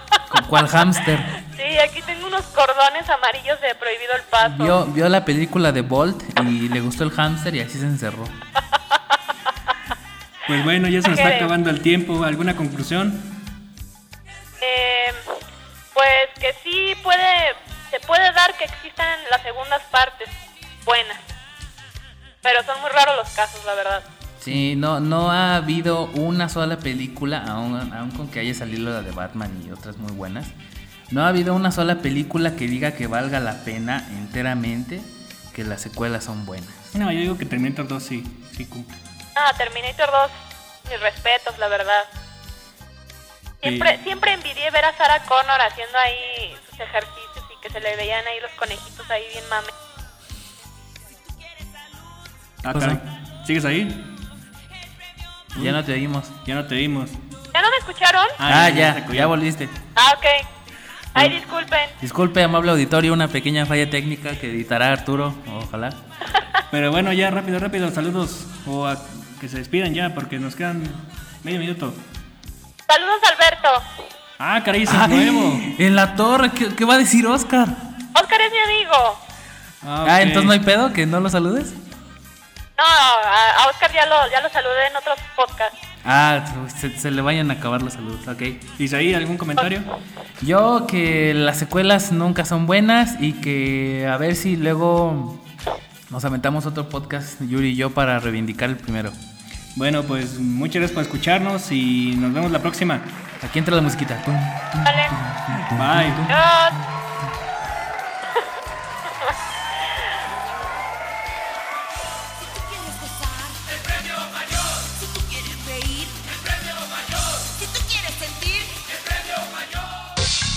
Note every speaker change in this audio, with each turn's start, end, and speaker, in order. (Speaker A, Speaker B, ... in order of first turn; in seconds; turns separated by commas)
Speaker A: 0.3-1.3, Speaker B: 1.4-4.8, Speaker A: 4.4-8.4, Speaker C: 10.5-13.4, Speaker B: 11.1-11.5, Speaker B: 14.6-15.4, Speaker B: 15.9-21.2, Speaker B: 22.4-24.1, Speaker A: 24.4-30.5, Speaker A: 31.1-37.0, Speaker C: 36.9-39.0, Speaker B: 39.4-40.3, Speaker B: 40.9-42.1, Speaker B: 43.6-49.7, Speaker C: 43.6-44.0, Speaker C: 52.6-54.1, Speaker A: 52.7-53.0, Speaker C: 55.5-55.8, Speaker A: 55.5-56.4, Speaker C: 56.5-57.2, Speaker B: 57.5-58.4, Speaker C: 58.4-59.4, Speaker A: 58.5-59.8, Speaker B: 60.0-60.5, Speaker B: 61.1-62.0, Speaker A: 62.0-66.0, Speaker C: 66.7-72.0, Speaker B: 72.9-73.8, Speaker C: 74.4-75.7, Speaker A: 74.9-77.8, Speaker B: 78.2-79.2, Speaker C: 79.8-80.6, Speaker A: 80.0-81.8, Speaker B: 82.8-85.7, Speaker A: 86.0-88.7, Speaker C: 88.8-89.9, Speaker A: 90.4-95.5, Speaker A: 96.1-99.2, Speaker C: 99.8-103.2, Speaker A: 103.4-106.9, Speaker B: 104.8-105.2, Speaker C: 105.7-106.3, Speaker B: 106.3-106.8, Speaker D: 112.3-119.0